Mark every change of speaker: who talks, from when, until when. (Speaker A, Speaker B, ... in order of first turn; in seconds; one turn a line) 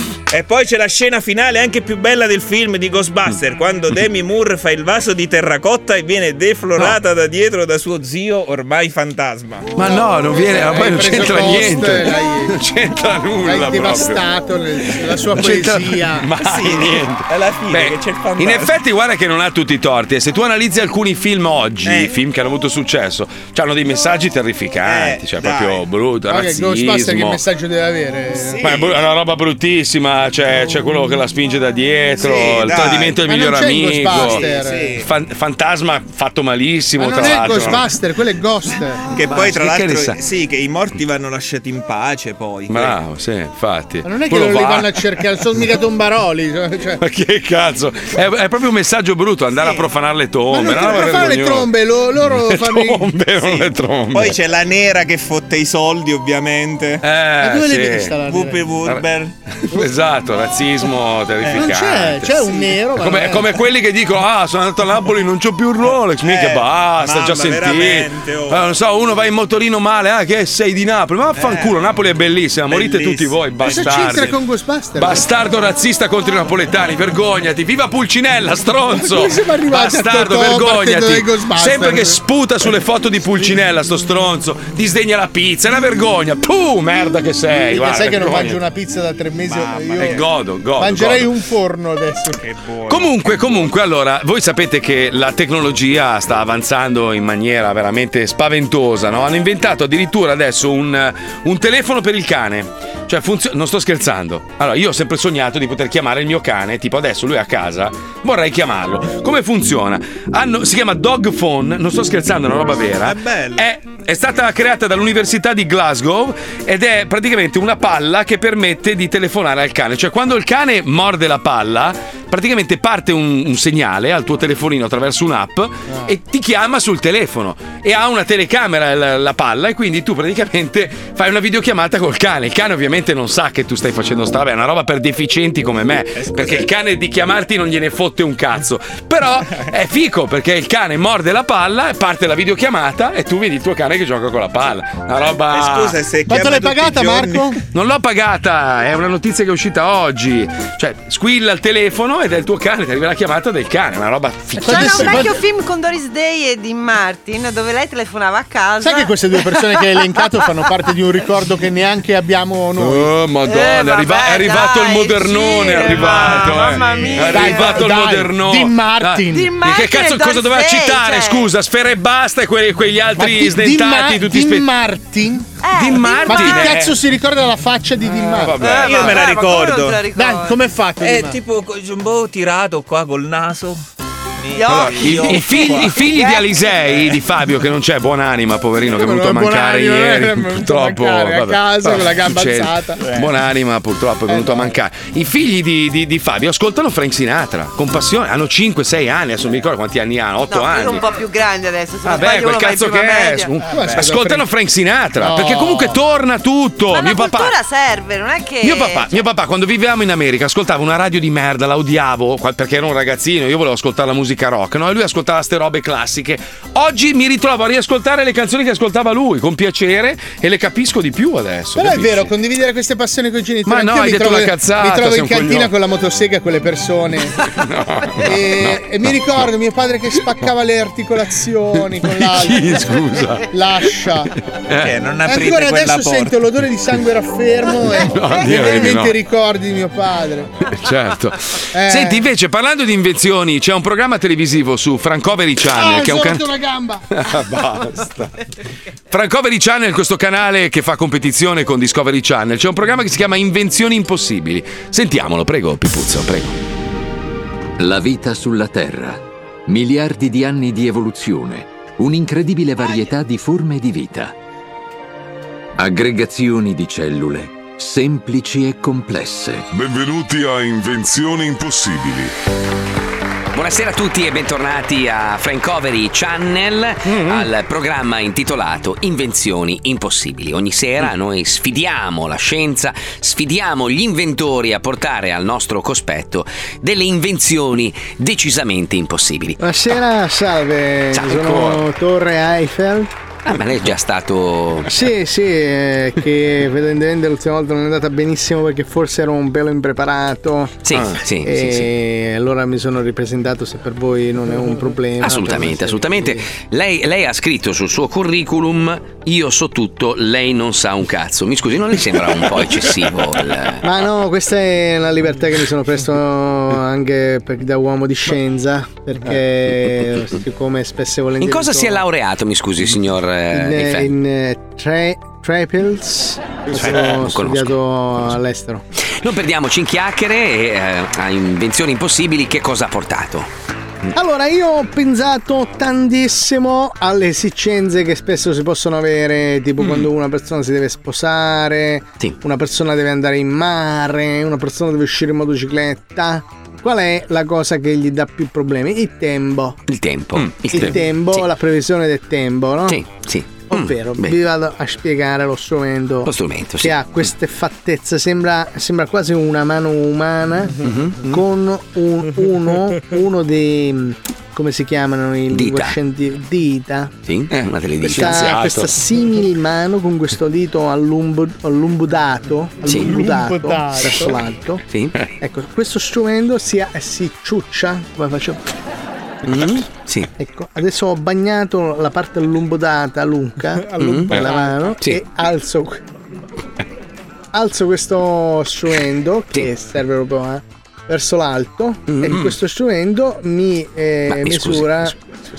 Speaker A: 0.3-9.7
Speaker B: 9.8-14.2
Speaker C: 9.8-12.6
Speaker C: 13.4-16.3
Speaker B: 14.9-27.4
Speaker A: 16.4-18.7
Speaker A: 21.8-22.1
Speaker A: 24.8-25.8
Speaker C: 26.3-28.7
Speaker A: 28.4-29.1
Speaker B: 28.6-34.5
Speaker A: 32.2-33.2
Speaker C: 33.2-35.0
Speaker A: 34.1-35.1
Speaker B: 35.0-37.9
Speaker C: 37.0-39.1
Speaker A: 39.1-43.0
Speaker B: 39.1-40.2
Speaker B: 42.7-45.2
Speaker C: 44.0-47.0
Speaker B: 47.0-54.4
Speaker A: 49.5-49.9
Speaker C: 50.5-53.1
Speaker A: 53.4-57.0
Speaker B: 57.0-58.2
Speaker C: 57.4-58.7
Speaker A: 58.3-59.3
Speaker B: 58.8-74.4
Speaker C: 61.5-63.6
Speaker A: 65.9-68.6
Speaker A: 71.4-71.8
Speaker A: 72.7-73.9
Speaker C: 73.6-75.3
Speaker B: 75.0-88.6
Speaker C: 79.0-82.2
Speaker C: 87.7-90.2
Speaker A: 89.5-90.3
Speaker B: 90.0-91.3
Speaker C: 90.8-92.4
Speaker A: 92.3-93.7
Speaker B: 92.9-146.0
Speaker A: 113.0-113.7
Speaker A: 136.2-136.7
Speaker A: 145.5-147.6
Speaker C: 146.3-147.6
Speaker B: 147.7-155.3
Speaker D: 154.6-159.1
Speaker C: 154.6-155.3
Speaker C: 158.8-163.1
Speaker B: 162.8-174.7
Speaker D: 163.4-167.9
Speaker A: 166.2-167.1
Speaker C: 167.3-169.5
Speaker D: 169.3-171.5
Speaker C: 173.2-175.6
Speaker D: 175.6-176.9
Speaker B: 175.8-176.9
Speaker C: 176.3-178.6
Speaker B: 178.1-179.2
Speaker D: 178.6-180.6
Speaker A: 178.7-180.1
Speaker C: 180.1-181.4
Speaker A: 181.0-183.8
Speaker A: 184.4-186.0
Speaker D: 184.6-186.6
Speaker B: 184.6-201.1
Speaker C: 188.9-193.1
Speaker A: 193.0-193.3
Speaker C: 194.3-194.8
Speaker D: 200.5-203.5
Speaker B: 202.0-207.6
Speaker C: 203.6-204.4
Speaker C: 205.2-206.0
Speaker D: 206.9-209.2
Speaker B: 208.6-222.3
Speaker C: 221.8-227.3
Speaker B: 223.7-225.7
Speaker B: 227.6-229.4
Speaker C: 228.2-234.3
Speaker B: 232.0-233.5
Speaker B: 234.7-234.9
Speaker A: 234.8-236.4
Speaker C: 235.2-240.5
Speaker B: 238.0-239.2
Speaker B: 240.7-246.4
Speaker C: 241.7-242.2
Speaker C: 245.7-247.0
Speaker B: 247.1-248.4
Speaker B: 249.1-256.6
Speaker E: 257.8-264.3
Speaker E: 265.8-269.6
Speaker F: 269.7-272.3
Speaker G: 273.5-289.6
Speaker B: 277.1-277.5
Speaker H: 289.6-293.1
Speaker B: 291.4-291.8
Speaker G: 293.4-294.9
Speaker H: 294.9-300.9
Speaker G: 300.8-301.9
Speaker B: 300.9-301.2
Speaker H: 301.4-306.5
Speaker G: 305.2-313.9
Speaker H: 313.8-322.0
Speaker G: 321.4-324.1
Speaker H: 323.5-328.8
Speaker G: 326.7-327.7
Speaker G: 329.2-333.5
Speaker H: 334.1-349.8
Speaker G: 349.9-351.4
Speaker B: 350.4-350.9
Speaker H: 350.7-353.0
Speaker G: 352.9-354.3
Speaker H: 353.7-367.1
Speaker G: 356.3-357.0
Speaker G: 360.8-361.4
Speaker G: 365.5-365.9
Speaker G: 367.2-368.4
Speaker B: 367.5-369.0
Speaker H: 368.0-374.8
Speaker C: 372.9-374.4
Speaker G: 374.9-375.2
Speaker H: 375.4-378.6
Speaker G: 379.4-380.3
Speaker H: 380.4-386.0
Speaker C: 383.9-384.9
Speaker G: 384.0-384.3
Speaker H: 387.5-395.2
Speaker G: 392.1-392.4
Speaker G: 394.3-395.1